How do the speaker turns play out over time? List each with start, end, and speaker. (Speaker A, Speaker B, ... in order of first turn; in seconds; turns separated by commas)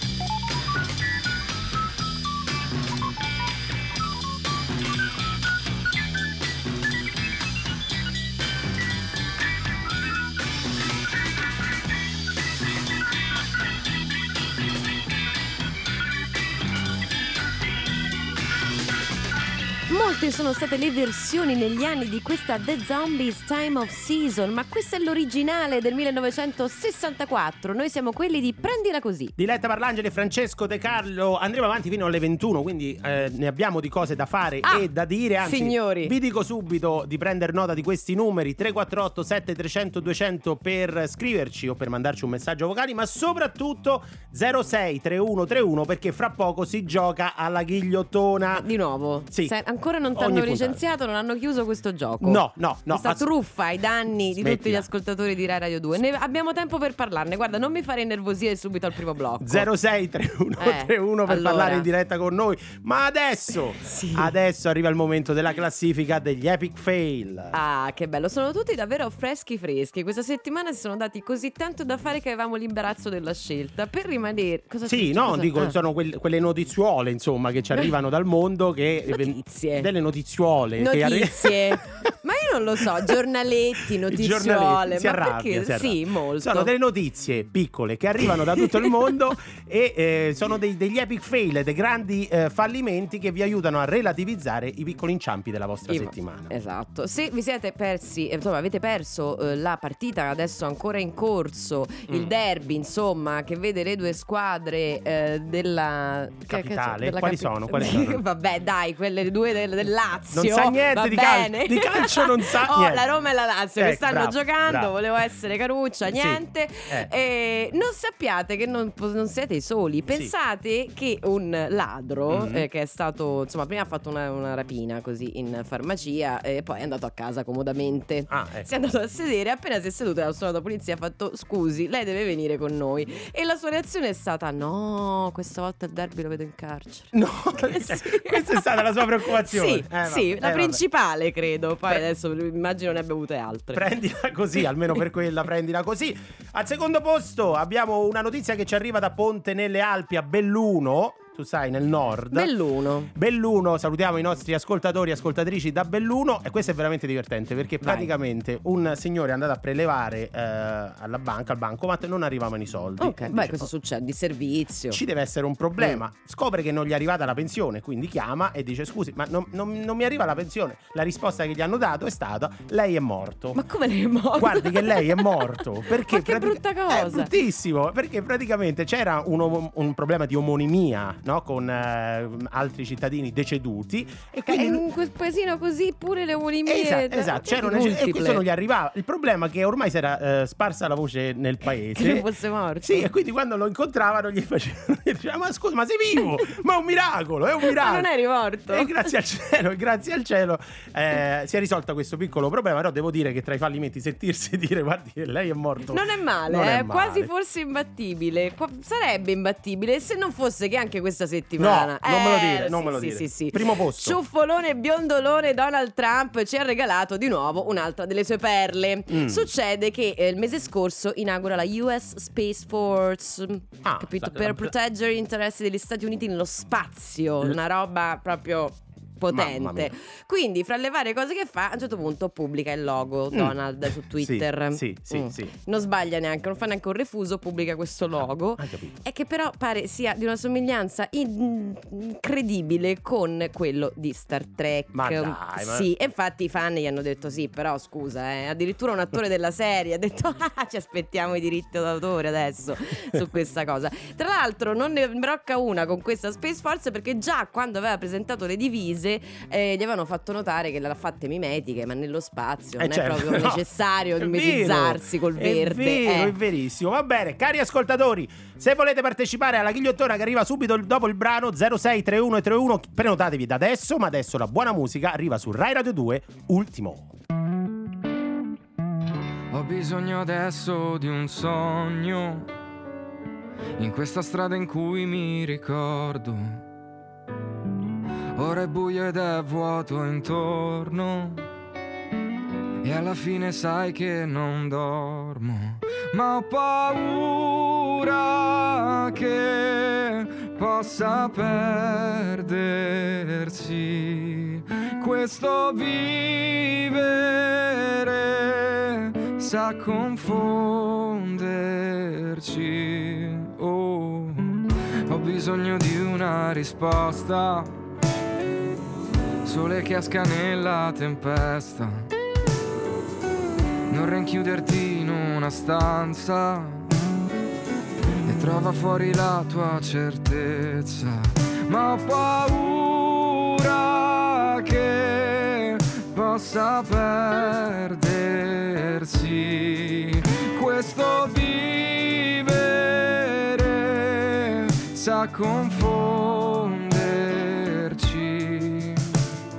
Speaker A: 19.9-29.3, Speaker B: 29.4-48.7, Speaker A: 35.4-36.1, Speaker A: 48.5-59.7, Speaker B: 49.3-49.5, Speaker B: 50.1-50.8, Speaker B: 52.2-53.3, Speaker B: 54.4-54.9, Speaker B: 59.4-67.5, Speaker A: 60.6-61.9, Speaker A: 63.8-64.3, Speaker A: 67.5-75.8, Speaker B: 74.8-82.1, Speaker A: 79.1-79.9, Speaker A: 80.8-86.7, Speaker B: 83.9-96.5, Speaker A: 88.5-89.0, Speaker A: 95.9-143.8, Speaker B: 106.5-108.2, Speaker B: 110.3-113.1, Speaker B: 113.8-114.9, Speaker B: 116.1-117.1, Speaker B: 122.3-122.6, Speaker B: 128.3-128.7, Speaker B: 137.1-140.8, Speaker B: 143.7-152.5, Speaker A: 152.3-153.1, Speaker B: 153.1-163.7, Speaker A: 157.8-158.1, Speaker A: 163.0-165.0, Speaker B: 164.9-173.6, Speaker A: 173.5-177.3, Speaker B: 174.4-184.8, Speaker A: 184.5-188.4, Speaker B: 186.7-192.3, Speaker A: 191.9-193.1, Speaker B: 192.8-198.1, Speaker A: 197.6-198.9, Speaker B: 198.7-207.3, Speaker A: 205.9-266.4, Speaker B: 211.6-214.2, Speaker B: 219.1-219.4, Speaker B: 223.8-224.7, Speaker B: 229.3-229.9, Speaker B: 233.3-235.5, Speaker B: 238.6-238.9, Speaker B: 244.9-245.9, Speaker B: 262.8-263.6, Speaker B: 264.2-277.1, Speaker C: 279.5-282.5, Speaker C: 283.8-286.6, Speaker C: 288.4-291.4, Speaker C: 292.8-317.7, Speaker C: 319.4-322.1, Speaker C: 323.9-326.9, Speaker C: 328.2-349.2